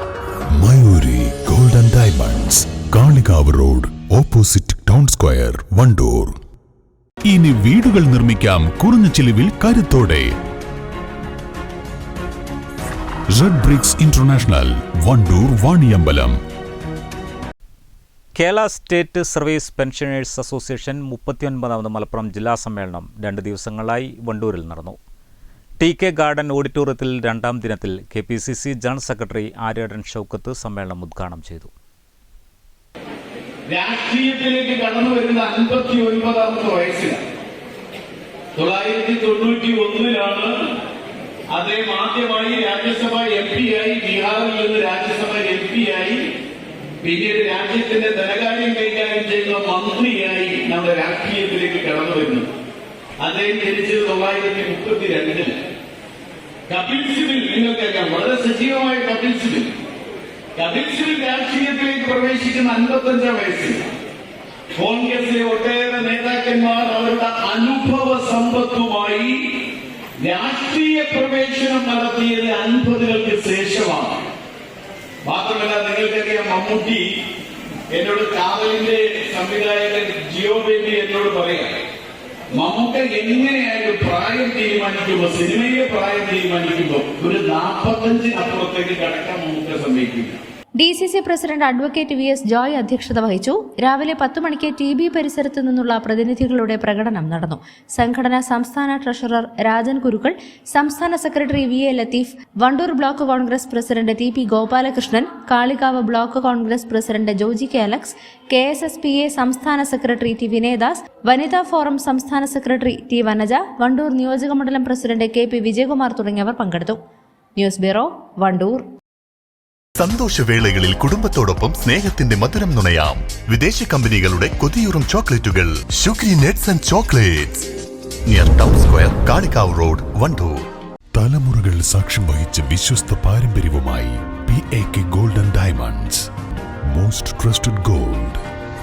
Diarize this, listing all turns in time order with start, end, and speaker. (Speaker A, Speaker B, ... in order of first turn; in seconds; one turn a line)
Speaker A: 0.6-6.3
Speaker A: 7.3-10.3
Speaker A: 13.3-16.4
Speaker B: 18.4-25.0
Speaker B: 25.8-31.7
Speaker C: 33.7-37.2
Speaker C: 38.5-40.5
Speaker C: 41.5-46.3
Speaker C: 47.0-52.5
Speaker C: 53.2-55.6
Speaker C: 56.7-59.7
Speaker C: 60.6-63.8
Speaker C: 64.8-69.6
Speaker C: 70.2-74.3
Speaker C: 75.3-77.1
Speaker C: 77.9-81.8
Speaker C: 82.5-90.4
Speaker D: 90.8-97.5
Speaker D: 98.1-100.2
Speaker D: 100.8-117.0
Speaker D: 117.6-118.8
Speaker E: 120.0-127.7
Speaker E: 128.3-130.6
Speaker A: 131.2-136.3
Speaker A: 136.9-138.4